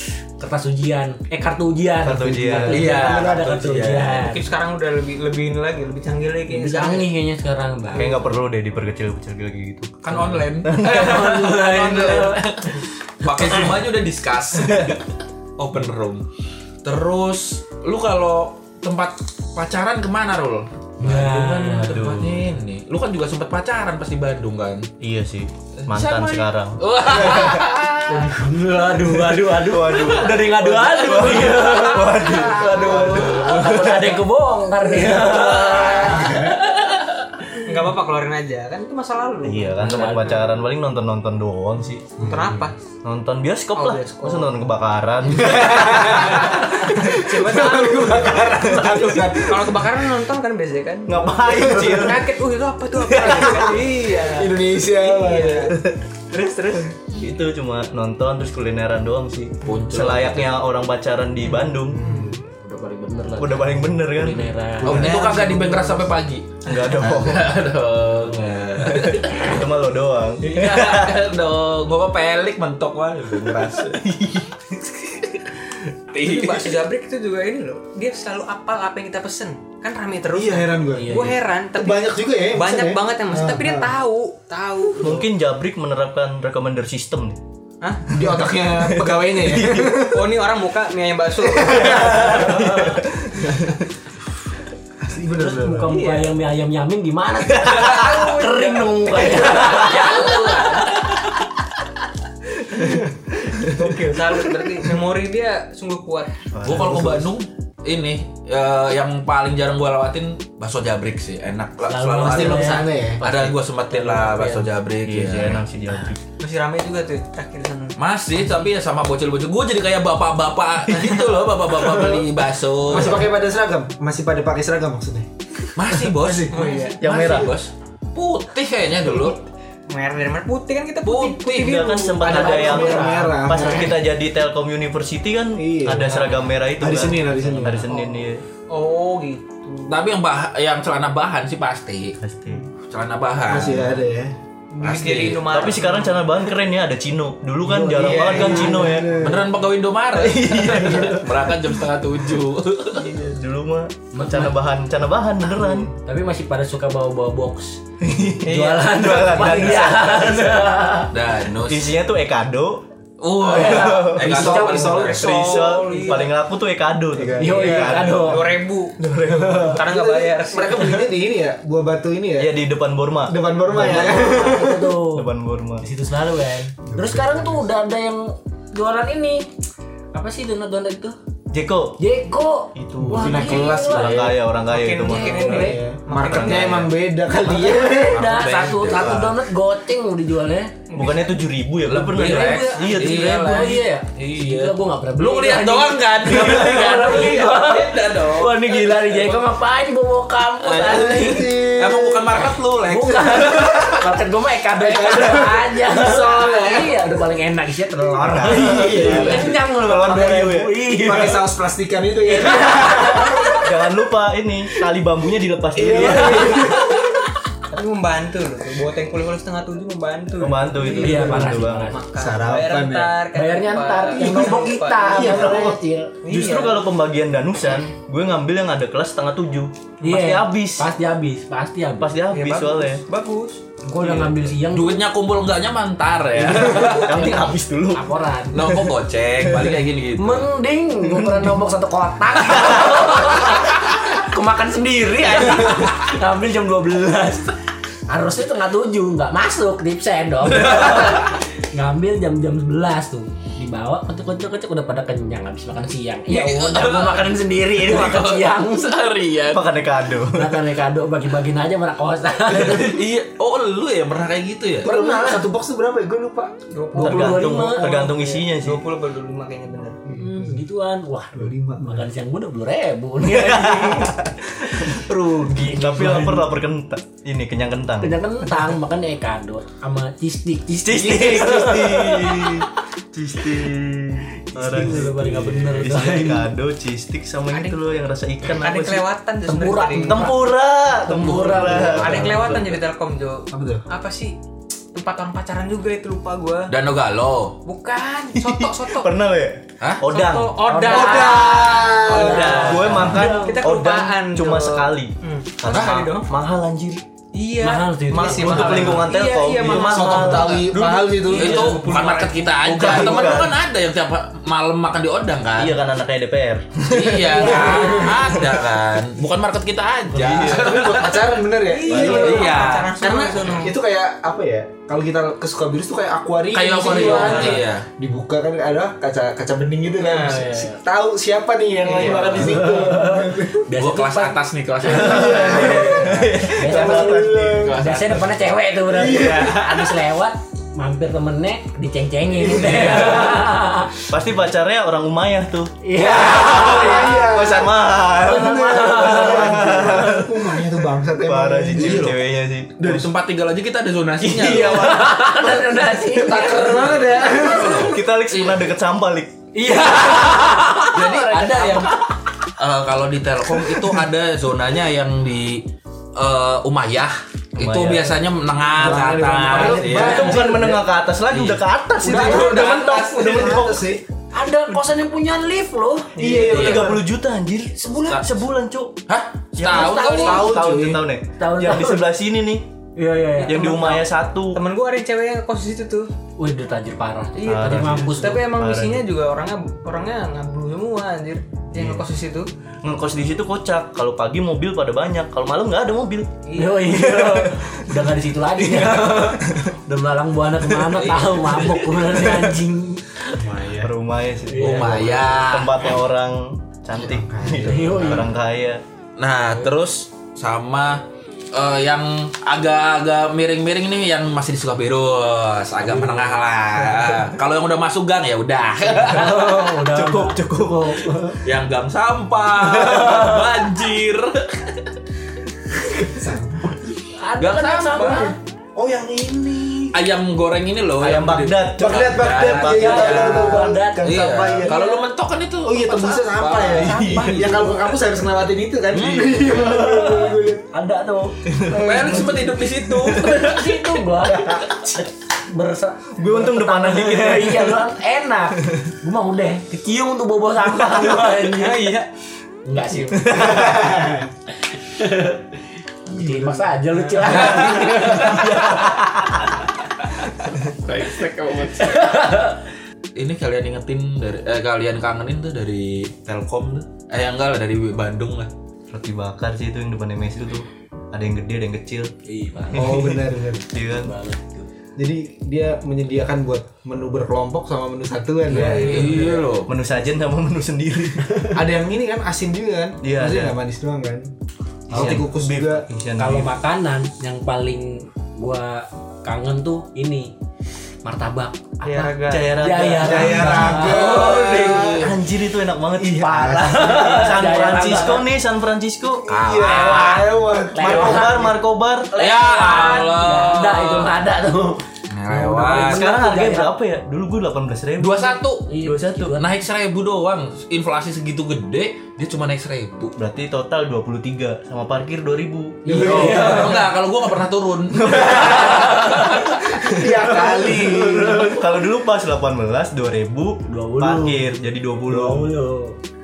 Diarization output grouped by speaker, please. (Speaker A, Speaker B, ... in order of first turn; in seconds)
Speaker A: 0.4-4.5, 6.5-8.2, 10.8-12.6, 13.3-13.7, 21.0-22.1, 28.1-36.6, 39.8-40.5, 62.5-65.3, 80.9-81.4, 95.4-100.3, 111.9-113.2, 113.9-114.7, 132.3-133.4, 147.9-149.0, 154.1-154.6, 155.9-157.8, 158.4-161.1, 163.4-165.1, 167.4-168.5, 173.7-175.3, 175.8-179.5, 180.1-181.2, 182.0-184.3, 185.0-185.8, 187.5-190.7, 192.1-201.7, 202.7-211.5, 212.3-213.7, 216.1-216.9, 220.9-222.0, 223.3-226.2, 230.0-232.2, 233.8-235.1, 236.4-238.7, 240.2-247.6, 248.1-259.0, 260.3-263.0, 264.8-265.5, 266.9-268.1, 270.1-276.5, 278.0-282.6, 284.5-286.4, 289.4-292.5, 300.6-303.6, 307.6-309.1, 310.1-310.5, 317.3-318.4, 321.9-322.4, 326.8-327.6, 330.1-330.8, 332.4-334.4, 336.5-343.9, 345.8-347.4, 348.2-350.2, 354.2-357.4, 359.5-362.1, 368.8-370.5, 372.0-373.6, 374.3-376.5, 377.7-378.2, 379.7-380.4, 381.4-382.1, 382.9-384.1, 386.4-388.4, 396.5-403.4, 404.5-405.1, 407.6-408.3, 419.0-421.4, 422.8-423.3, 427.1-428.4, 432.6-435.0, 439.5-441.4, 443.1-451.9, 452.6-453.8, 454.8-455.4, 456.1-459.1, 461.8-462.6, 472.2-473.1, 473.9-474.7, 478.5-479.3, 484.9-485.2, 486.2-490.3, 491.0-495.0, 496.2-498.3, 499.6-501.5, 502.1-506.7, 508.7-509.6, 515.8-516.9, 518.5-519.3, 523.6-524.5, 525.1-526.0
Speaker B: 2.0-3.0, 7.9-11.2, 21.7-22.5, 25.0-27.6, 29.1-34.1, 39.4-46.5, 48.5-49.0, 51.1-52.3, 53.1-53.8, 56.7-62.0, 63.4-65.4, 66.6-67.5, 68.8-71.2, 74.0-74.4, 85.0-87.4, 88.7-90.0, 92.0-93.5, 106.5-107.3, 115.0-116.2, 127.0-127.5, 131.6-138.4, 142.2-142.6, 145.4-149.3, 150.2-151.4, 152.9-155.9, 158.0-160.7, 161.6-162.8, 163.5-169.8, 172.3-175.8, 181.5-182.0, 182.7-186.9, 190.9-193.8, 208.2-210.8, 213.6-216.9, 220.4-221.9, 226.3-230.9, 232.0-233.0, 236.3-238.1, 241.0-241.6, 242.4-243.0, 259.5-260.6, 266.9-268.8, 273.2-278.6, 280.8-289.1, 290.0-292.7, 298.3-301.2, 302.2-307.0, 308.1-310.6, 312.6-313.6, 315.6-317.8, 320.1-320.9, 334.8-337.8, 344.1-350.5, 351.2-353.0, 354.4-355.9, 357.6-359.3, 367.6-368.2, 369.5-374.0, 376.4-379.0, 379.5-382.7, 383.4-384.6, 387.4-389.1, 391.7-392.0, 392.8-396.3, 396.9-397.7, 398.6-399.3, 403.8-408.8, 419.2-421.2, 431.0-433.1, 441.5-442.2, 443.0-443.4, 444.2-445.0, 446.1-447.9, 453.3-453.7, 458.1-459.4, 468.9-472.1, 472.7-474.1, 478.5-481.3, 483.0-483.6, 484.9-486.5, 492.3-499.3, 500.8-502.1, 505.8-509.4, 513.1-516.5, 517.9-525.5
Speaker C: 2.7-4.2, 10.0-15.0, 15.6-16.2, 16.8-24.9, 25.8-28.4, 30.1-34.1, 35.2-36.9, 59.6-60.5, 64.8-69.6, 70.4-74.1, 74.8-76.8, 99.7-100.9, 106.6-115.6, 118.0-123.3, 125.8-129.4, 131.0-131.8, 139.9-142.2, 142.8-143.9, 144.8-145.7, 149.1-153.1, 161.1-162.0, 163.2-165.8, 187.9-189.3, 191.8-198.9, 201.7-204.0, 209.0-209.4, 234.0-237.1, 238.5-240.5, 250.6-251.2, 256.3-259.6, 262.5-264.9, 291.6-292.5, 296.7-297.6, 299.8-300.1, 305.6-306.1, 311.2-315.8, 316.9-323.0, 326.5-327.9, 331.9-332.6, 333.8-336.2, 337.6-338.3, 351.7-352.2, 352.8-355.1, 356.7-358.7, 360.0-362.0, 362.6-370.5, 371.3-371.6, 372.2-373.0, 376.4-376.9, 379.1-380.6, 400.8-402.1, 404.6-406.0, 409.2-419.5, 421.4-424.8, 427.4-428.4, 429.9-437.8, 438.9-439.6, 441.7-443.9, 457.3-458.5, 460.8-462.0, 463.1-468.5, 478.5-479.7, 494.0-495.1, 499.3-500.3, 502.2-504.1, 505.1-506.1, 508.0-508.7, 509.4-513.1, 516.0-519.5
Speaker D: 4.2-7.1, 37.6-39.8, 42.2-42.7, 43.7-44.5, 45.9-48.5, 49.4-55.8, 56.3-56.8, 62.0-62.4, 76.2-85.1, 87.8-88.1, 90.0-92.1, 95.9-96.3, 97.7-101.0, 103.6-106.4, 116.4-118.0, 126.5-127.0, 129.9-133.1, 137.9-140.0, 144.7-146.2, 158.4-159.6, 164.8-166.3, 167.7-169.0, 169.7-171.1, 184.6-186.9, 190.9-191.4, 217.7-225.5, 226.2-226.8, 232.3-233.6, 266.7-270.0, 287.5-287.8, 288.6-290.3, 291.8-294.4, 294.9-296.7, 297.6-299.1, 300.1-306.3, 307.3-312.6, 321.7-323.8, 326.9-327.6, 330.0-330.3, 331.9-332.5, 384.5-386.1, 387.4-392.5, 396.4-396.9, 436.9-437.6, 451.4-452.1, 491.8-492.5
Speaker E: 42.2-42.5, 45.3-50.0, 51.5-52.1, 53.2-55.8, 61.9-62.4, 64.8-65.6, 80.3-83.9, 88.1-90.3, 91.4-92.9, 93.4-93.7, 95.0-96.0, 106.7-107.2, 112.2-113.2, 122.9-127.0, 132.2-134.0, 135.6-137.9, 143.4-144.3, 147.7-149.5, 164.2-165.3, 167.1-167.9, 169.2-172.5, 173.2-174.9, 176.8-177.6, 183.0-184.4, 185.5-188.3, 200.7-202.6, 203.5-203.9, 204.8-206.9, 208.2-209.6, 210.9-213.6, 215.7-216.9, 220.9-221.4, 222.1-223.2, 224.2-225.8, 264.8-266.6, 270.1-270.6, 271.3-272.1, 293.5-293.8, 300.9-302.8, 309.6-313.4, 317.6-318.2, 320.4-333.6, 334.9-337.8, 338.9-339.9, 342.4-343.3, 345.9-352.1, 352.8-353.1, 356.1-357.9, 368.7-370.8, 372.0-374.0, 376.2-377.0, 379.7-381.0, 403.4-403.9, 406.9-408.3, 415.9-416.2, 426.0-426.9, 428.7-429.9, 431.8-434.9, 435.6-440.7, 441.6-442.6, 453.2-454.3, 456.1-458.0, 472.7-473.6, 474.9-479.5, 481.5-484.3, 484.9-485.8, 493.0-495.1, 496.0-497.3, 499.3-501.5, 515.9-516.9, 519.8-521.5